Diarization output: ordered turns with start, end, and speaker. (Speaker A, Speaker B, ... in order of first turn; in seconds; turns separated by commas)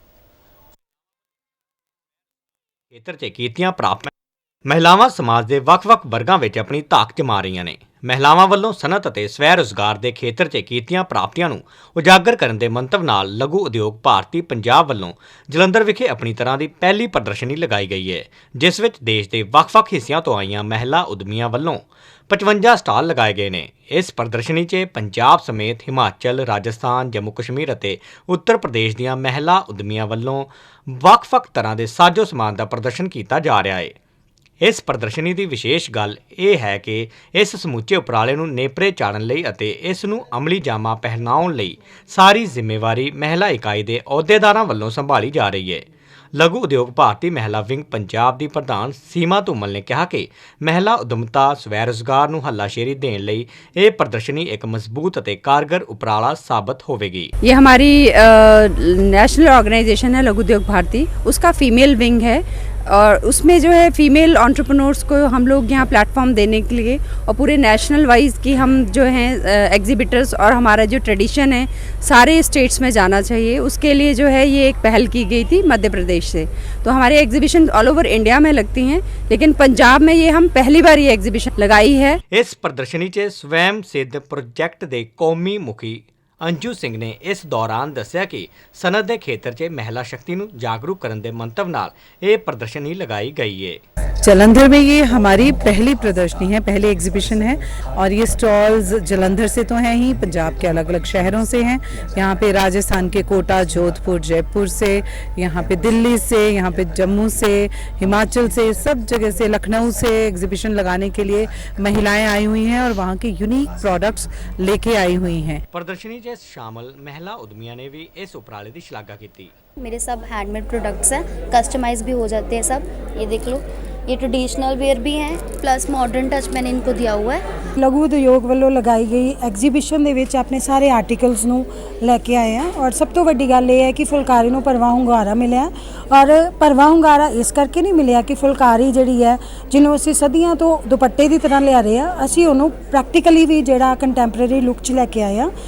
Speaker A: 2.9-4.1, Speaker A: 4.7-33.9, Speaker A: 34.6-57.3, Speaker B: 57.4-82.2, Speaker A: 82.3-93.8, Speaker C: 94.2-115.6, Speaker A: 115.7-119.5, Speaker D: 119.8-127.4, Speaker E: 127.8-145.5